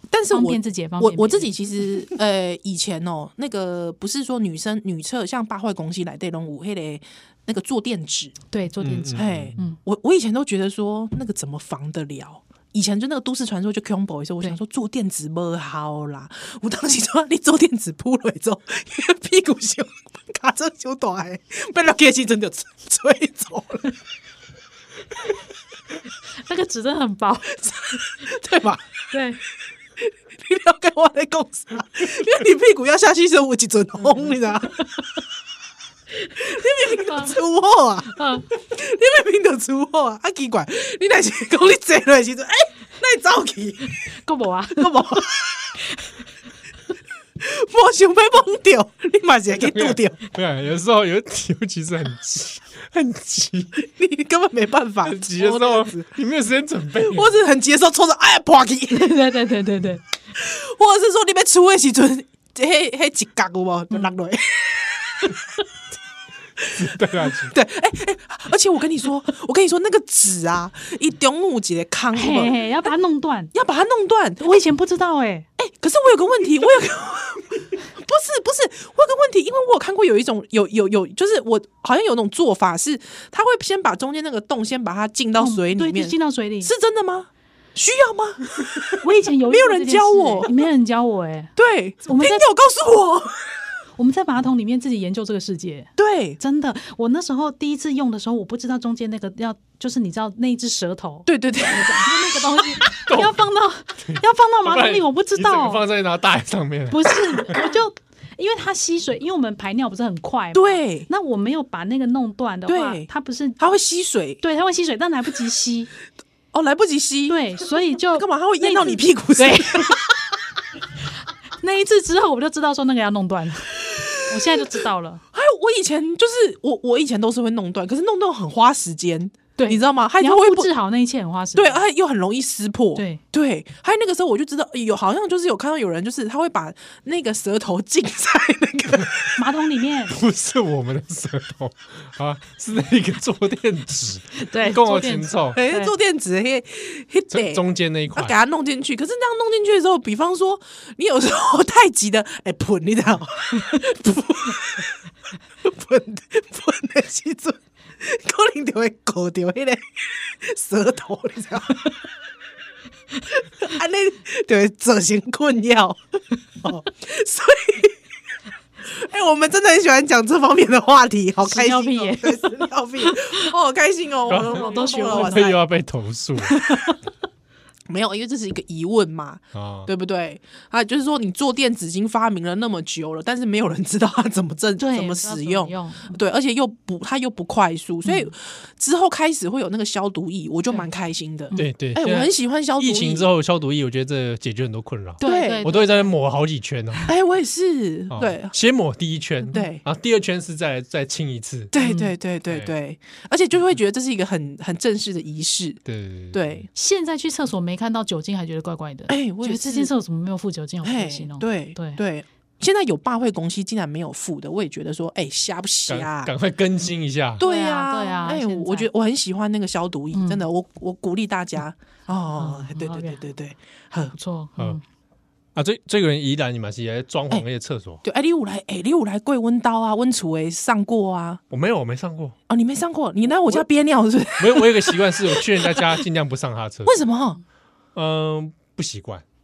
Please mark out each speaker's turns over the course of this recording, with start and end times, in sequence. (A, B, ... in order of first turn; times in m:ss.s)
0:00.1-0:08.4 A
0:00.3-0:01.5 B
0:08.5-0:09.8 B
0:08.8-0:09.6 C
0:09.1-0:24.0 A
0:26.4-0:28.1 B
0:27.6-0:29.1 A
0:29.1-0:29.4 B
0:30.0-0:35.0 A
0:36.2-0:37.4 B
0:36.4-0:44.0 A
0:38.0-0:38.5 B
0:43.9-0:45.2 B
0:44.8-0:45.8 A
0:45.9-0:46.2 B
0:47.4-0:50.2 A
0:49.6-0:53.9 C
0:53.8-0:56.1 A
0:55.0-0:57.4 C
0:57.0-0:59.2 A
0:58.9-1:00.0 B
1:00.3-1:05.6 A
1:06.6-1:12.9 A
1:06.7-1:07.5 C
1:12.1-1:13.5 B
1:13.5-1:14.6 A
1:14.4-1:15.5 B
1:15.6-1:30.5 A
1:25.4-1:26.7 B
1:29.0-1:31.5 B
1:31.6-1:33.5 A
1:32.0-1:32.4 B
1:34.0-1:45.8 B
1:36.0-1:36.4 A
1:41.3-1:42.9 A
1:43.1-1:43.4 C
1:44.0-1:47.6 C
1:46.9-1:53.6 B
1:50.5-1:51.1 A
1:52.7-1:54.4 A
1:54.4-1:55.9 B
1:56.5-1:57.4 A
1:57.3-2:00.0 B
1:58.2-2:00.3 A
2:01.6-2:05.2 B
2:03.8-2:04.6 A
2:05.3-2:10.7 A
2:09.6-2:11.8 B
2:11.6-2:19.4 A
2:13.0-2:13.2 B
2:19.4-2:20.2 B
2:20.1-2:25.6 C
2:24.4-2:26.0 B
2:25.5-2:27.6 A
2:27.3-2:28.4 C
2:28.2-2:35.1 A
2:35.6-2:41.9 A
2:43.3-2:48.0 A
2:48.8-2:55.6 A
2:51.4-2:53.3 B
2:54.3-2:56.6 C
2:54.4-2:55.5 B
2:56.4-2:57.0 B
2:57.9-3:13.3 A
2:59.5-2:59.9 C
3:04.8-3:06.2 B
3:08.0-3:08.3 B
3:11.6-3:17.1 C
3:15.2-3:16.1 B
3:15.2-3:15.7 A
3:17.1-3:18.6 A
3:18.1-3:21.8 C
3:19.5-3:19.8 A
3:21.7-3:25.8 A
3:21.8-3:22.2 B
3:25.9-3:26.6 C
3:26.3-3:26.7 A
3:26.7-3:32.0 B
3:29.1-3:29.9 A
3:30.8-3:36.3 A
3:35.9-3:37.4 C
3:37.4-3:44.2 A
3:37.4-3:38.9 B
3:40.1-3:40.4 B
3:42.3-3:43.2 B
3:44.1-3:44.8 B
3:45.6-3:48.0 C
3:48.0-3:51.4 A
3:51.5-3:52.4 C
3:52.5-3:56.0 A
3:54.4-3:57.0 C
3:56.9-3:57.4 A
3:58.0-3:59.2 C